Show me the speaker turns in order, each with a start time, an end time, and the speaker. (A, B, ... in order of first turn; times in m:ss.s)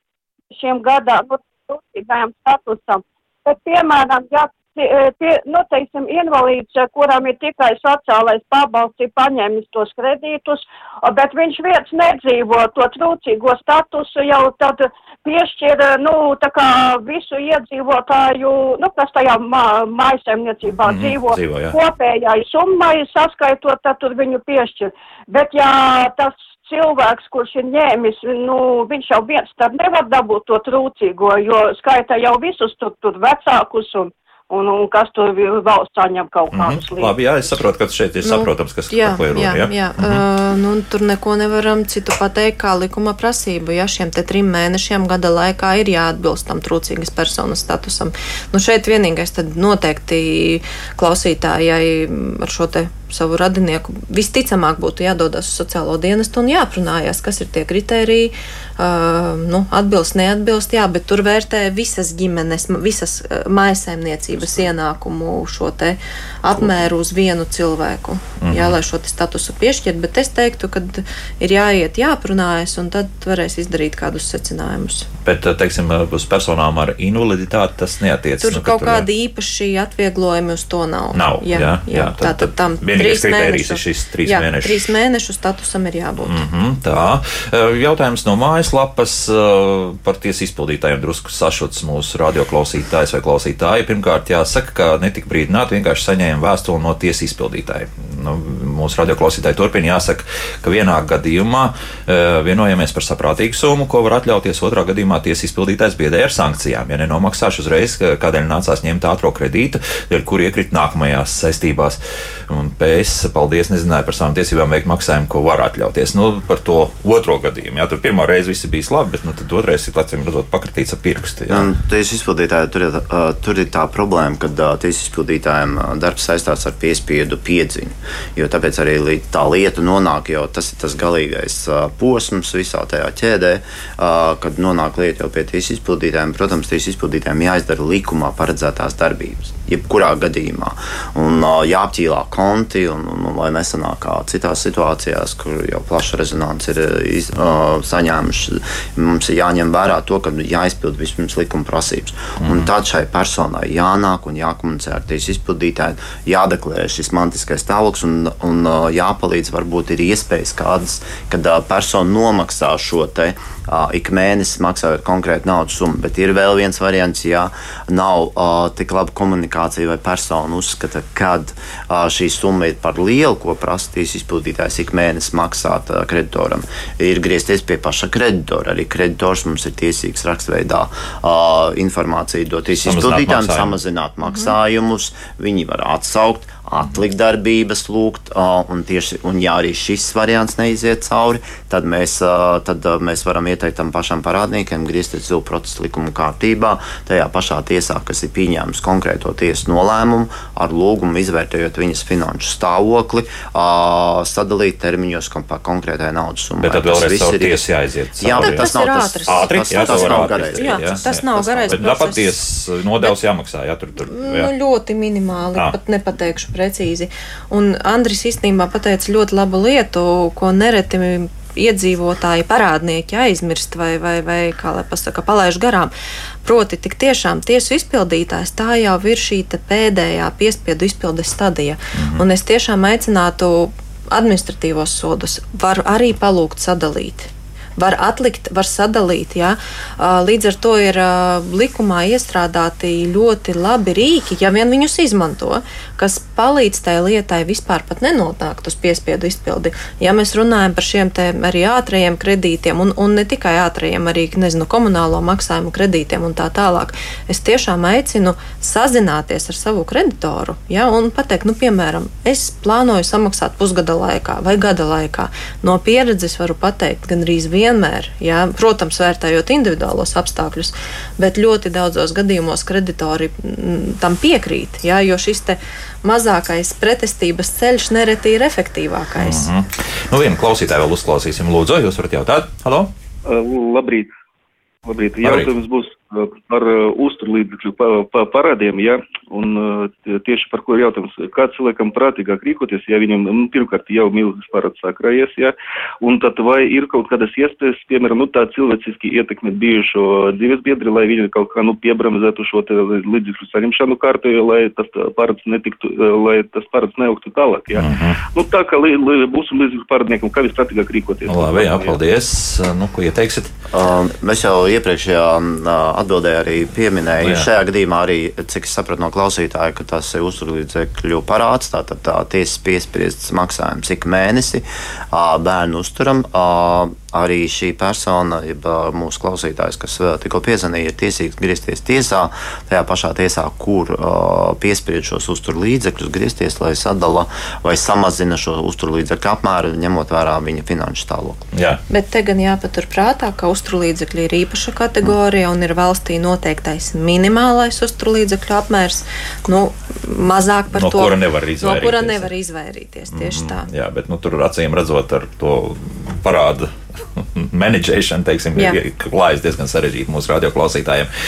0:00.5-0:37.5 A
0:20.8-0:21.8 B
0:36.5-0:40.2 B
0:38.2-1:15.1 C
1:08.4-1:08.8 B
1:15.2-1:19.1 B
1:18.4-1:26.4 C
1:21.1-1:24.9 B
1:26.2-2:01.7 B
2:01.5-3:27.6 D
3:02.8-3:03.8 B
3:04.2-3:04.5 C
3:26.6-3:28.7 B
3:28.2-3:32.0 D
3:28.4-3:32.4 C
3:29.2-3:34.5 B
3:34.1-3:45.9 C
3:46.4-4:39.5 C
3:52.0-3:52.2 B
4:39.2-4:42.9 B
4:43.3-4:44.1 E
4:44.9-5:12.0 E
4:45.2-4:45.5 B
5:07.8-5:08.2 B
5:11.3-5:13.5 B
5:13.7-5:41.5 D
5:17.2-5:17.5 B
5:41.5-5:41.8 B
5:41.9-5:53.7 C
5:50.8-5:52.3 B
5:53.1-6:01.1 B